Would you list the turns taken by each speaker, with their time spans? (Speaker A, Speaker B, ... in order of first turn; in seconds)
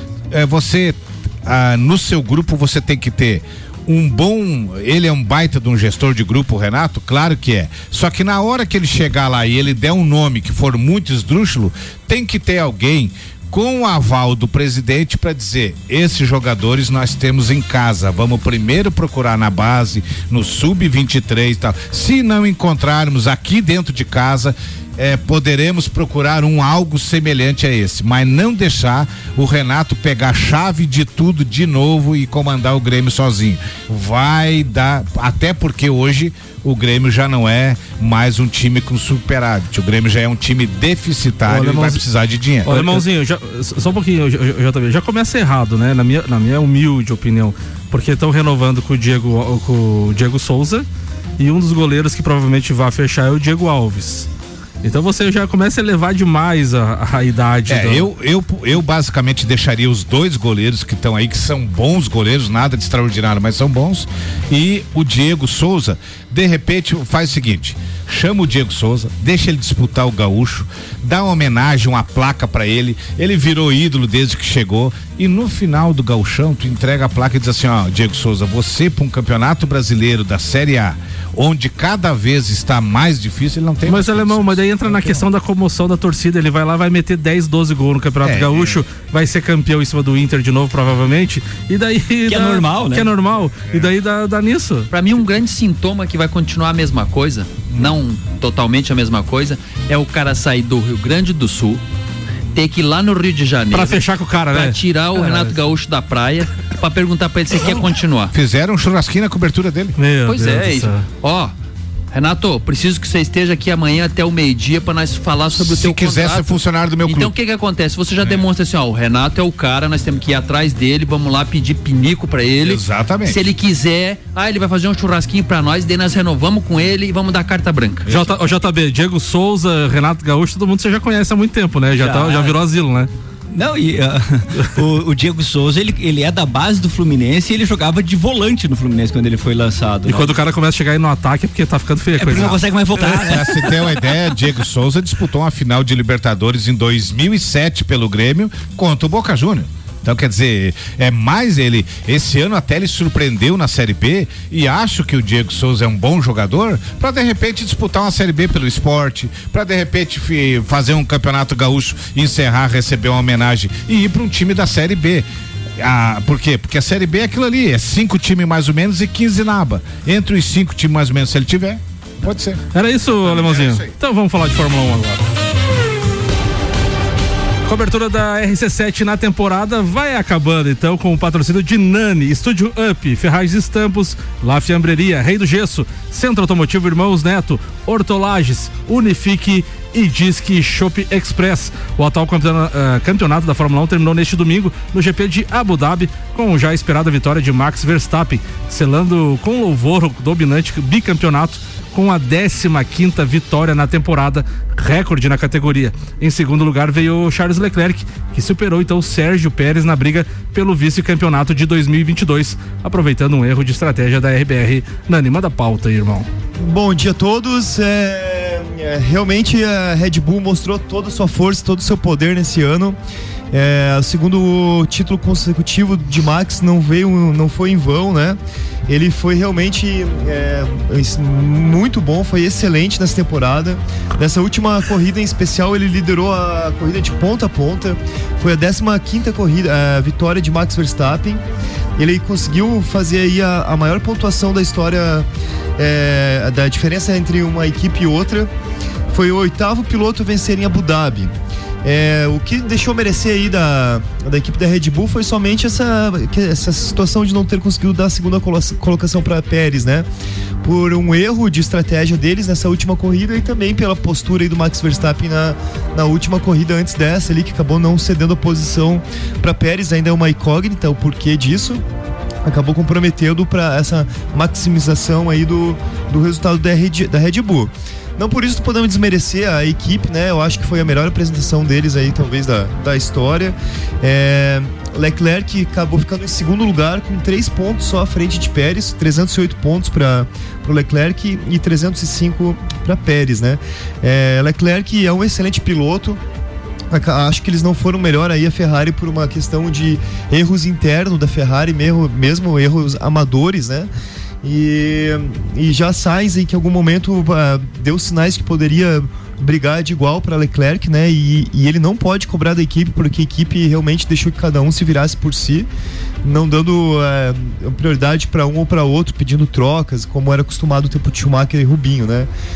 Speaker A: 0.3-43.0, 57.7-85.3, 88.2-88.8, 108.3-110.0, 115.6-117.3, 122.6-123.5, 128.1-128.3, 143.3-165.3, 165.8-172.7, 173.2-173.9
Speaker B: 41.5-42.0, 42.6-50.9, 51.4-54.3, 54.8-58.1, 83.9-94.9, 103.7-105.5, 110.0-111.0, 128.1-133.1, 140.1-143.4, 172.7-175.2, 177.7-216.3
Speaker C: 92.3-93.1, 132.0-132.6, 133.5-140.4, 142.2-143.6
Speaker D: 94.9-101.8, 102.5-108.3, 110.3-111.5, 112.1-128.1
Speaker E: 216.6-223.0, 223.5-241.4, 242.0-245.3, 245.8-248.5, 249.1-260.1, 260.6-271.8, 272.4-296.2, 296.9-303.9, 304.4-315.7, 316.2-322.3